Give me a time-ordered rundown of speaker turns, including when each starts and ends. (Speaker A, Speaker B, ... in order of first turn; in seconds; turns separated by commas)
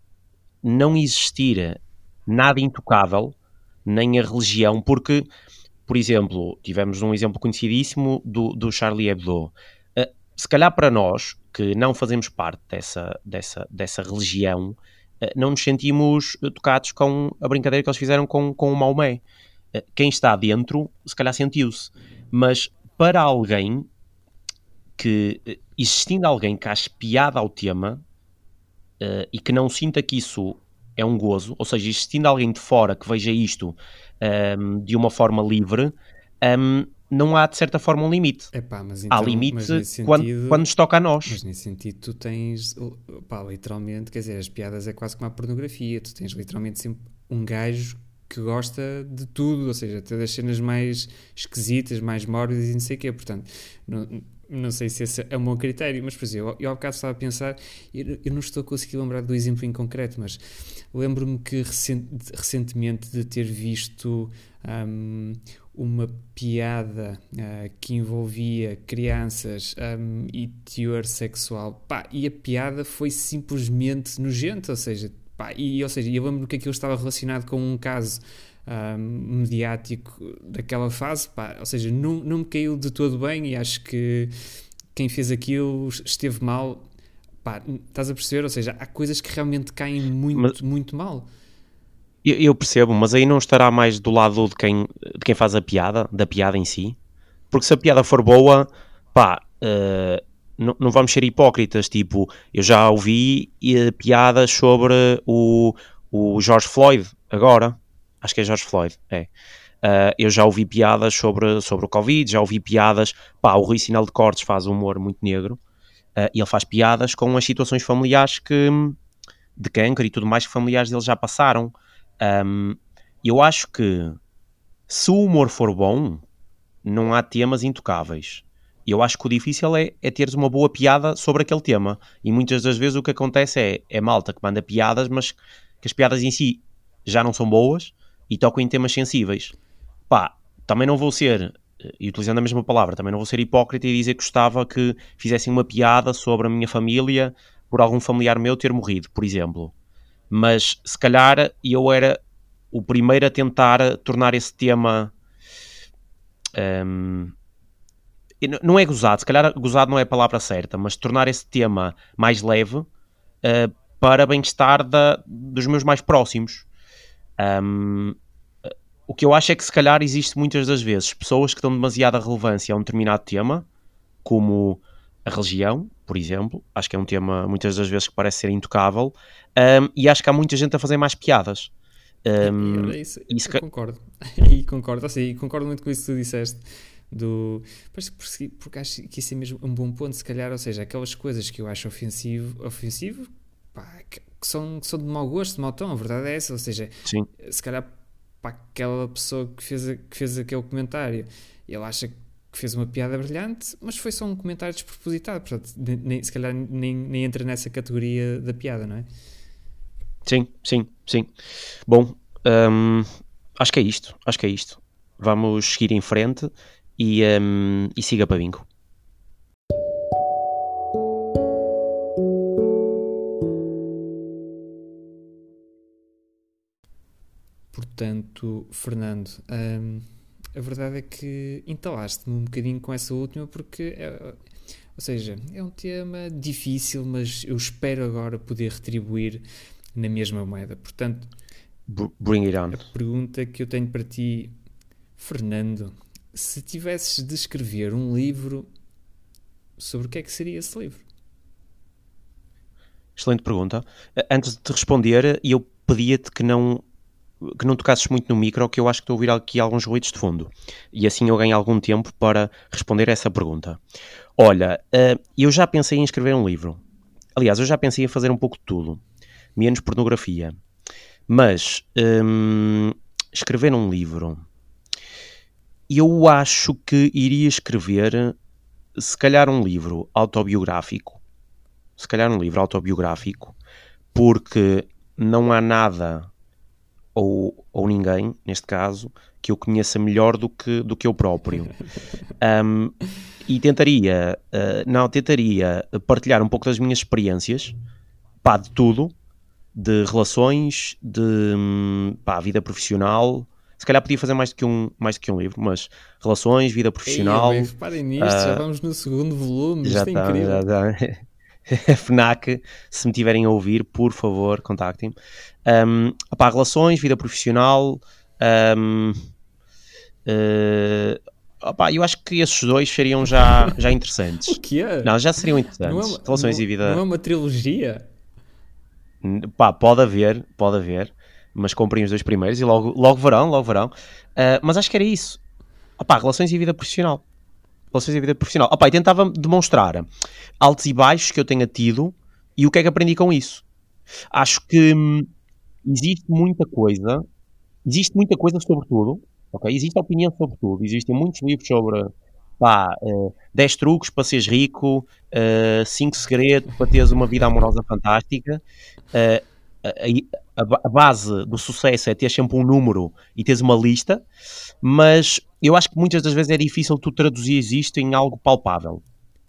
Speaker A: 0.6-5.3, Speaker A: 5.9-19.2, Speaker A: 19.8-23.9, Speaker A: 25.0-28.0, Speaker A: 29.0-38.5, Speaker B: 38.5-40.6, Speaker A: 39.1-41.4, Speaker B: 41.2-60.4, Speaker B: 60.9-84.3, Speaker B: 84.9-86.8, Speaker B: 87.4-91.3, Speaker A: 92.2-97.0, Speaker A: 97.5-109.3, Speaker A: 109.8-115.6, Speaker A: 116.2-119.0, Speaker A: 119.6-124.2, Speaker A: 124.9-126.2, Speaker A: 126.8-139.5, Speaker A: 140.1-149.7, Speaker A: 150.3-152.2, Speaker A: 152.7-155.1, Speaker A: 156.6-157.3, Speaker A: 158.4-162.9, Speaker A: 163.4-166.7, Speaker A: 167.4-168.2, Speaker A: 169.1-173.7, Speaker A: 174.2-181.7, Speaker A: 182.2-183.6, Speaker B: 182.4-197.9, Speaker B: 198.4-209.1, Speaker A: 210.2-211.3, Speaker A: 211.9-213.1, Speaker A: 213.6-218.7, Speaker B: 227.7-234.4, Speaker B: 235.0-239.4, Speaker B: 239.9-241.3, Speaker A: 241.9-242.8, Speaker B: 242.7-244.5, Speaker B: 245.2-248.7, Speaker B: 249.8-251.0, Speaker A: 253.2-256.8, Speaker A: 257.4-263.8, Speaker A: 264.4-266.8, Speaker A: 267.4-269.0, Speaker A: 269.6-270.6, Speaker A: 271.3-274.4, Speaker A: 275.9-278.4, Speaker A: 278.9-281.2, Speaker A: 282.0-283.6, Speaker A: 284.1-286.3, Speaker A: 287.1-291.7, Speaker A: 292.4-297.7, Speaker A: 298.4-299.1, Speaker A: 299.7-308.6, Speaker B: 307.1-310.6, Speaker A: 309.8-311.2, Speaker A: 311.7-315.1, Speaker A: 315.7-319.2, Speaker A: 320.2-327.0, Speaker B: 323.3-323.8, Speaker B: 324.5-325.2, Speaker B: 325.8-328.1, Speaker A: 329.2-335.4, Speaker A: 336.0-337.2, Speaker A: 337.9-340.1, Speaker A: 340.6-343.6, Speaker A: 344.3-345.3, Speaker A: 345.8-347.2, Speaker A: 347.8-358.6, Speaker A: 359.1-364.2, Speaker A: 364.8-369.0